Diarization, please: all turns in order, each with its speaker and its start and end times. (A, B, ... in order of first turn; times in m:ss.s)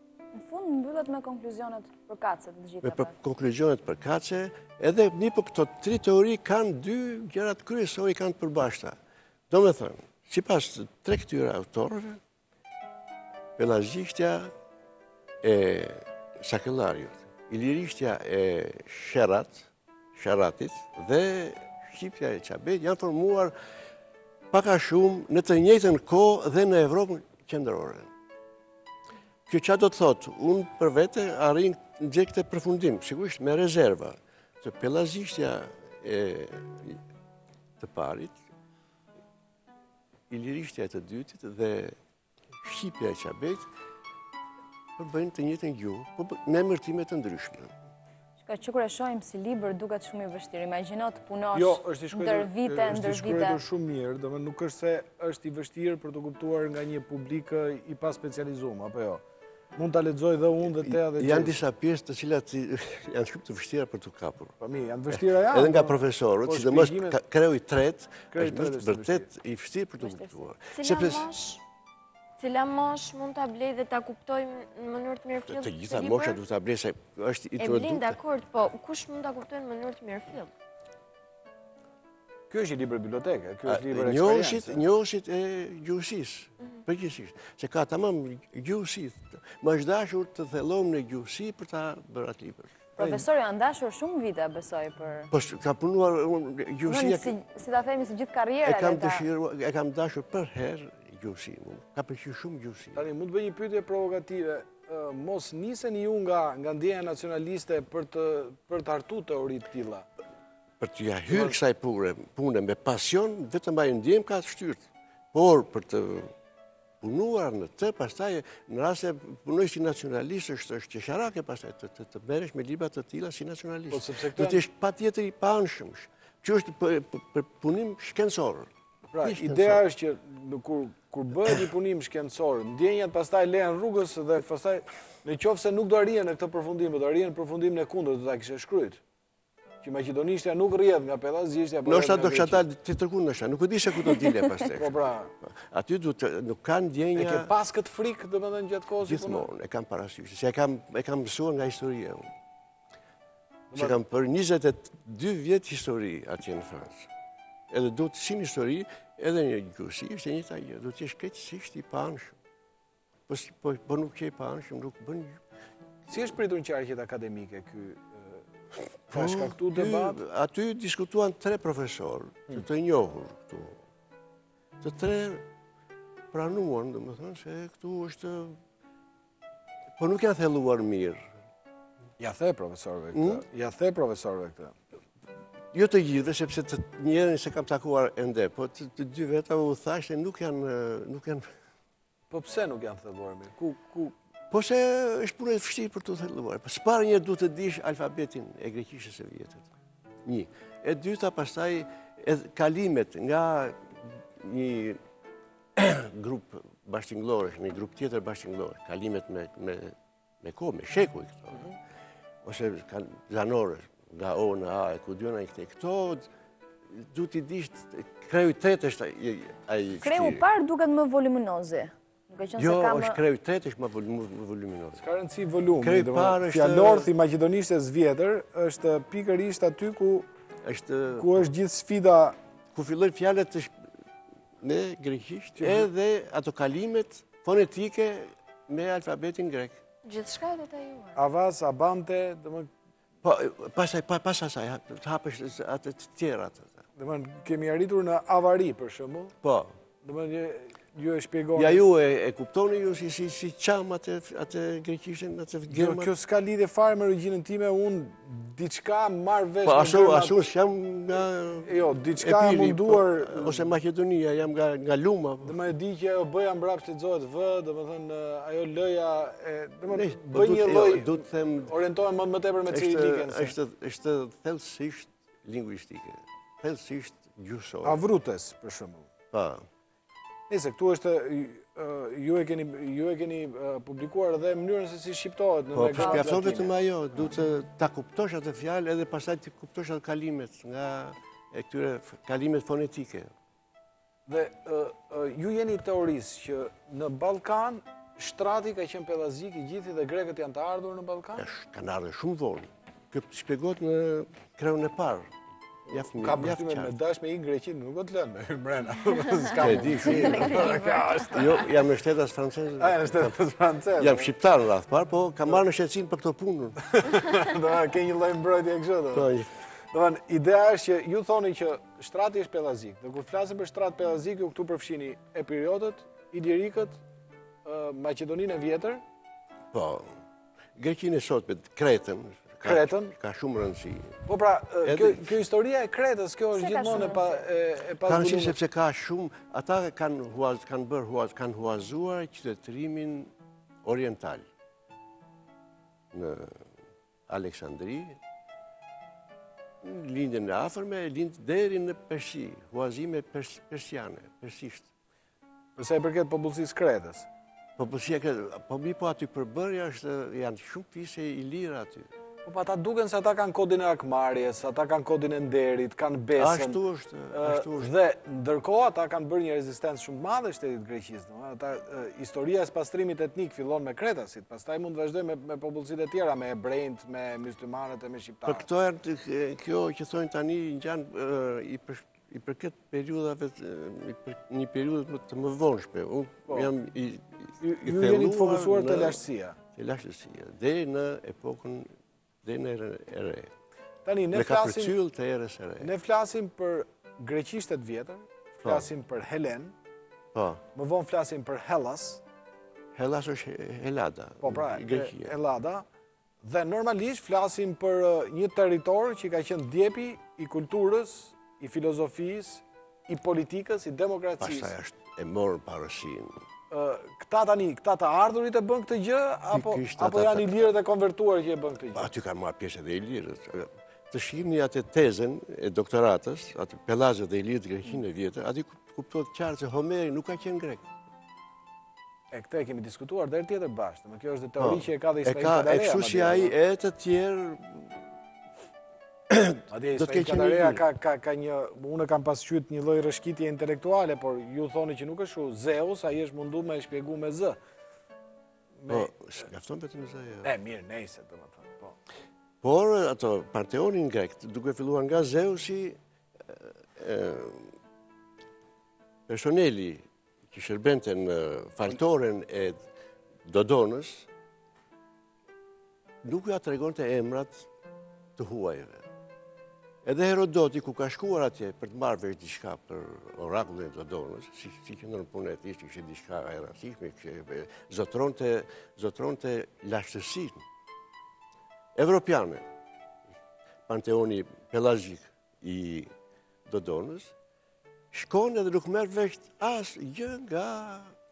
0:00.4-0:03.1 A
0:02.8-0:09.0 B
0:09.5-0:12.2 B
0:13.6-0:14.5 B
0:15.4-0:23.6 B
0:24.5-0:28.1 B
0:29.5-0:37.0 B
0:37.8-0:38.4 B
0:40.3-0:42.0 B
0:42.6-0:43.7 B
0:45.0-0:47.7 B
0:48.4-0:53.6 A
0:51.5-0:59.2 C
0:59.8-1:01.6 C
1:01.1-1:04.6 B
1:04.6-1:07.2 C
1:05.1-1:11.3 B
1:08.3-1:09.3 C
1:10.0-1:10.5 A
1:10.7-1:11.6 D
1:12.4-1:16.4 D
1:15.5-1:18.2 B
1:17.6-1:20.5 D
1:22.5-1:24.8 C
1:23.7-1:32.8 B
1:33.0-1:33.2 C
1:33.0-1:35.3 A
1:35.3-1:37.3 B
1:36.8-1:39.3 A
1:38.6-1:43.1 B
1:43.0-1:50.1 C
1:50.8-1:56.3 B
1:51.3-1:51.6 C
1:57.0-2:09.8 B
2:03.9-2:04.6 C
2:09.1-2:19.0 C
2:19.8-2:22.6 C
2:21.8-2:27.5 B
2:24.7-2:25.3 C
2:27.2-2:29.5 C
2:29.0-2:32.3 B
2:33.7-2:37.1 B
2:37.7-2:42.4 B
2:43.3-2:45.4 B
2:46.1-2:48.4 C
2:49.1-2:53.8 B
2:49.1-2:50.2 C
2:54.8-2:55.4 B
2:56.3-2:58.6 B
3:00.0-3:01.3 B
3:02.2-3:04.8 C
3:03.1-3:03.4 B
3:05.7-3:11.5 B
3:12.3-3:14.2 C
3:14.5-3:19.7 B
3:20.2-3:25.0 B
3:25.8-3:31.7 B
3:32.4-3:36.3 B
3:36.9-3:40.4 B
3:40.0-3:43.2 A
3:42.6-3:45.0 B
3:45.0-3:50.3 C
3:45.8-3:47.1 B
3:50.6-3:51.4 B
3:51.2-3:52.4 C
3:52.7-3:53.8 B
3:54.6-3:59.8 B
3:55.6-3:55.9 C
4:00.0-4:01.2 D
4:01.2-4:02.7 C
4:03.2-4:06.8 B
4:07.0-4:09.4 C
4:09.4-4:09.8 B
4:10.0-4:11.8 C
4:11.6-4:16.1 B
4:15.7-4:20.4 C
4:19.6-4:25.6 B
4:21.6-4:23.7 C
4:25.4-4:33.6 C
4:29.9-4:31.7 B
4:32.7-4:38.0 B
4:37.8-4:39.1 C
4:39.3-4:39.6 B
4:40.5-4:46.7 C
4:45.7-4:53.3 B
4:46.0-4:46.6 A
4:54.3-5:01.4 C
5:01.4-5:05.3 B
5:05.9-5:06.9 B
5:06.2-5:11.6 C
5:09.6-5:13.3 B
5:12.8-5:14.3 C
5:14.0-5:16.8 B
5:16.9-5:19.3 C
5:19.1-5:19.5 B
5:19.9-5:27.0 C
5:27.6-5:29.0 C
5:29.7-5:30.2 B
5:30.8-5:34.2 B
5:32.6-5:33.2 C
5:34.3-5:38.6 C
5:34.8-5:35.3 B
5:36.5-5:37.4 A
5:38.1-5:43.3 B
5:43.8-5:44.4 B
5:46.1-5:46.6 B
5:47.3-5:48.2 B
5:49.8-5:54.9 B
5:55.8-5:57.3 C
5:57.8-6:02.1 B
6:02.4-6:06.8 C
6:06.4-6:07.9 B
6:07.3-6:18.7 C
6:18.4-6:29.2 B
6:27.6-6:29.6 C
6:29.7-6:31.9 B
6:32.4-6:33.5 B
6:34.0-6:34.9 C
6:34.3-6:35.9 B
6:35.8-6:39.7 C
6:40.3-6:40.6 B
6:40.7-6:42.2 C
6:42.9-6:45.3 B
6:44.4-6:45.8 C
6:46.4-6:54.7 C
6:54.4-6:56.4 B
6:56.7-7:02.1 C
6:59.5-7:00.6 B
7:01.9-7:10.9 B
7:12.3-7:16.6 C
7:14.6-7:17.9 B
7:19.3-7:20.8 B
7:19.7-7:27.6 C
7:28.8-7:29.1 C
7:28.9-7:30.5 B
7:30.4-7:32.0 C
7:32.6-7:36.0 B
7:36.5-7:37.7 B
7:39.3-7:42.8 B
7:43.4-7:44.3 B
7:46.2-7:47.7 B
7:48.4-7:49.0 B
7:50.0-8:00.6 B
8:01.9-8:02.6 B
8:03.9-8:06.1 B
8:06.6-8:07.3 B
8:08.1-8:11.1 B